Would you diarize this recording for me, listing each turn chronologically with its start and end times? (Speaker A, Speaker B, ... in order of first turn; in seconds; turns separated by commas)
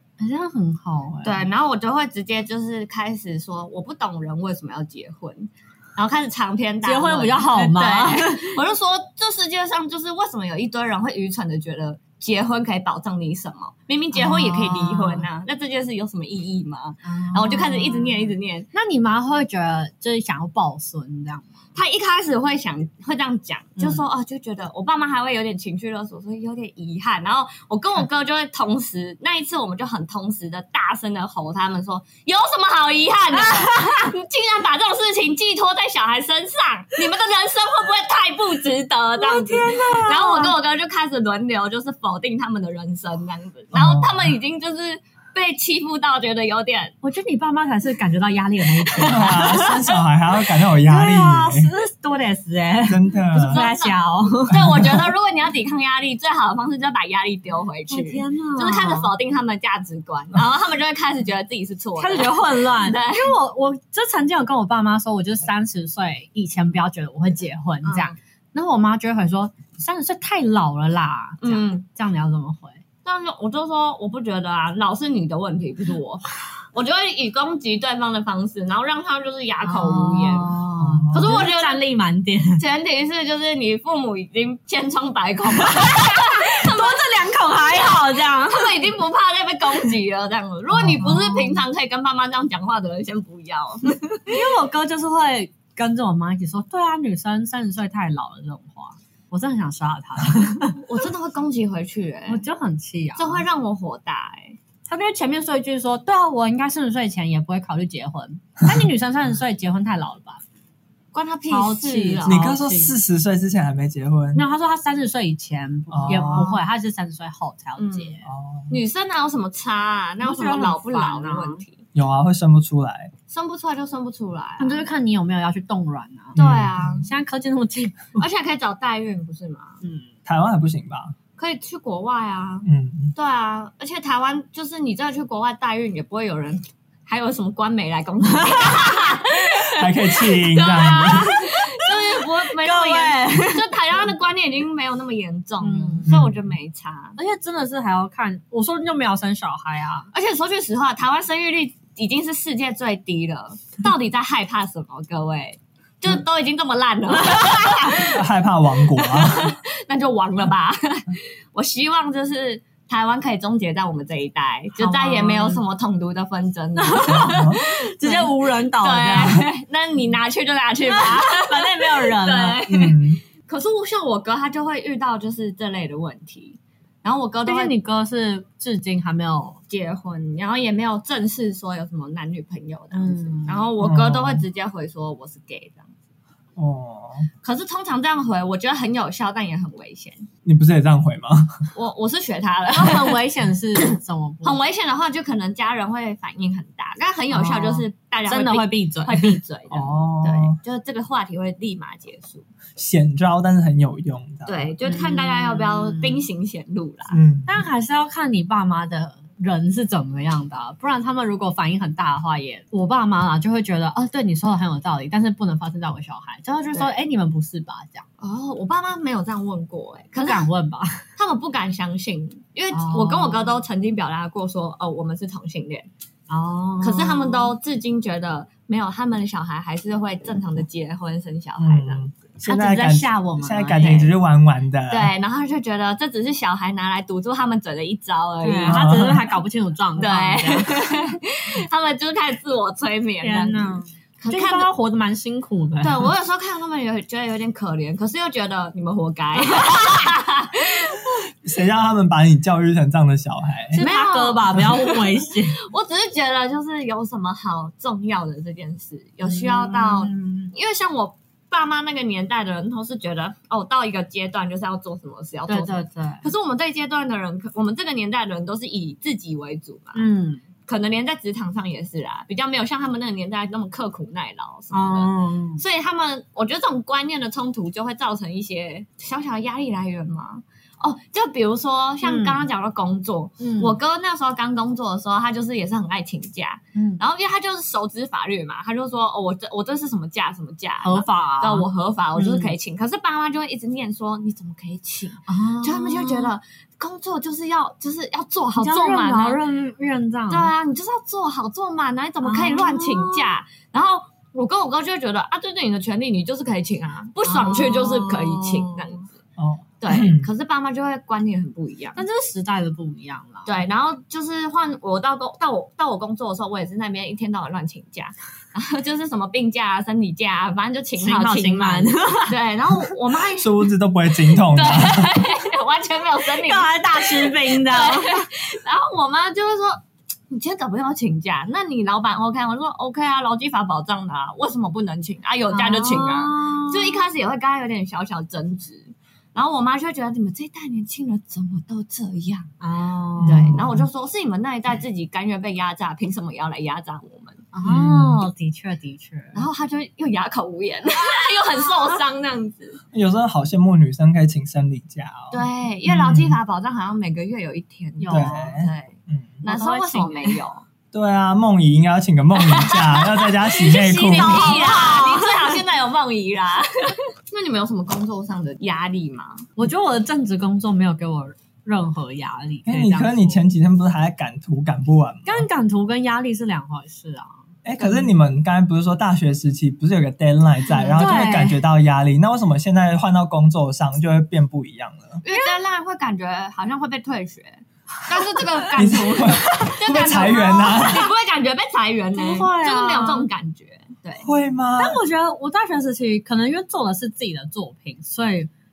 Speaker A: 0.2-1.5, Speaker B: 1.2-18.7, Speaker A: 6.8-8.6, Speaker A: 14.1-15.3, Speaker A: 17.1-21.7, Speaker B: 21.8-47.0, Speaker A: 23.8-24.0, Speaker A: 33.3-34.0, Speaker A: 39.1-40.5, Speaker C: 43.7-44.4, Speaker A: 47.0-49.8, Speaker C: 49.0-51.7, Speaker A: 50.8-55.0, Speaker C: 52.9-53.6, Speaker B: 53.5-63.4, Speaker C: 54.5-54.8, Speaker A: 57.9-59.1, Speaker A: 62.0-72.8, Speaker B: 67.8-68.2, Speaker B: 71.4-71.8, Speaker B: 73.0-80.5, Speaker A: 79.6-82.6, Speaker C: 80.8-81.4, Speaker B: 81.1-81.9, Speaker B: 82.6-87.1, Speaker A: 85.6-88.9, Speaker B: 88.5-94.4, Speaker C: 90.7-91.1, Speaker A: 91.0-91.6, Speaker A: 94.3-100.8, Speaker B: 100.8-102.5, Speaker A: 102.3-103.4, Speaker B: 103.2-104.6, Speaker A: 104.9-110.4, Speaker B: 111.1-112.4, Speaker A: 111.5-113.0, Speaker C: 112.2-114.5, Speaker A: 114.3-118.2, Speaker C: 115.9-116.5, Speaker B: 116.0-116.6, Speaker B: 117.8-121.8, Speaker C: 118.2-118.8, Speaker A: 120.2-121.6, Speaker C: 122.0-123.1, Speaker B: 123.3-124.9, Speaker A: 124.6-126.4, Speaker C: 126.4-127.0, Speaker B: 126.4-127.1, Speaker A: 127.0-128.1, Speaker B: 128.2-129.8, Speaker A: 129.8-130.1, Speaker C: 130.3-131.2, Speaker B: 131.4-147.2, Speaker C: 132.7-133.2, Speaker A: 138.5-138.9, Speaker C: 139.7-141.3, Speaker A: 141.2-143.9, Speaker A: 145.6-146.1, Speaker C: 146.1-146.4, Speaker A: 147.2-150.1, Speaker B: 150.1-158.2, Speaker A: 157.2-158.0, Speaker C: 158.1-159.6, Speaker B: 159.0-177.7, Speaker A: 164.8-165.6, Speaker A: 166.8-169.4, Speaker C: 167.1-167.6, Speaker A: 170.8-172.6, Speaker C: 172.7-173.2, Speaker A: 177.5-179.6, Speaker B: 179.7-185.9, Speaker A: 182.9-183.7, Speaker C: 183.8-184.4, Speaker C: 186.6-187.3, Speaker B: 187.4-190.3, Speaker C: 190.4-191.7, Speaker B: 191.7-193.2, Speaker A: 192.7-194.6, Speaker B: 194.4-202.5, Speaker A: 197.3-199.4, Speaker C: 199.7-200.6, Speaker C: 202.8-204.7, Speaker B: 204.4-207.2, Speaker A: 204.8-206.2, Speaker C: 207.1-207.7, Speaker A: 207.5-218.1, Speaker B: 218.2-220.5, Speaker A: 220.2-221.1, Speaker B: 221.2-225.9, Speaker A: 222.7-223.6, Speaker A: 226.3-227.5, Speaker B: 226.8-232.1, Speaker C: 231.6-235.1, Speaker A: 232.4-234.1, Speaker B: 234.9-238.9, Speaker A: 238.4-241.1, Speaker C: 238.7-239.4, Speaker B: 240.0-244.7, Speaker A: 243.2-246.1, Speaker B: 245.8-251.0, Speaker A: 249.5-249.9, Speaker C: 251.4-253.8, Speaker A: 253.7-255.6, Speaker B: 253.8-270.0, Speaker A: 259.2-260.5, Speaker A: 265.5-266.3, Speaker A: 269.9-270.4, Speaker B: 270.7-299.4, Speaker A: 274.7-275.6, Speaker A: 282.0-282.4, Speaker A: 283.4-283.8, Speaker A: 286.8-287.0, Speaker A: 290.8-292.5, Speaker A: 295.3-296.3, Speaker A: 298.6-300.5, Speaker B: 300.3-309.1, Speaker A: 302.2-303.4, Speaker A: 307.2-309.0, Speaker C: 309.4-310.3, Speaker B: 309.8-312.0, Speaker A: 311.9-313.5, Speaker B: 313.4-323.7, Speaker A: 321.0-322.4, Speaker C: 323.4-325.1, Speaker B: 324.3-342.5, Speaker A: 326.4-328.3, Speaker A: 335.5-337.0, Speaker A: 342.6-343.6, Speaker C: 343.2-343.9, Speaker B: 343.2-347.4, Speaker A: 347.5-349.4, Speaker C: 347.6-348.2, Speaker B: 349.3-352.8, Speaker C: 352.9-356.4, Speaker B: 355.3-360.6, Speaker A: 358.0-358.5, Speaker C: 358.1-359.4, Speaker A: 359.4-360.4, Speaker C: 360.9-364.6, Speaker B: 362.4-369.5, Speaker A: 363.6-365.6, Speaker A: 369.6-373.4, Speaker C: 372.7-375.5, Speaker A: 375.2-377.4, Speaker C: 377.6-385.2, Speaker B: 377.8-378.1, Speaker A: 380.8-381.6, Speaker B: 385.2-394.3, Speaker A: 385.3-385.6, Speaker C: 388.8-391.1, Speaker A: 389.5-390.4, Speaker A: 392.1-393.3, Speaker C: 394.2-395.0, Speaker A: 394.8-398.5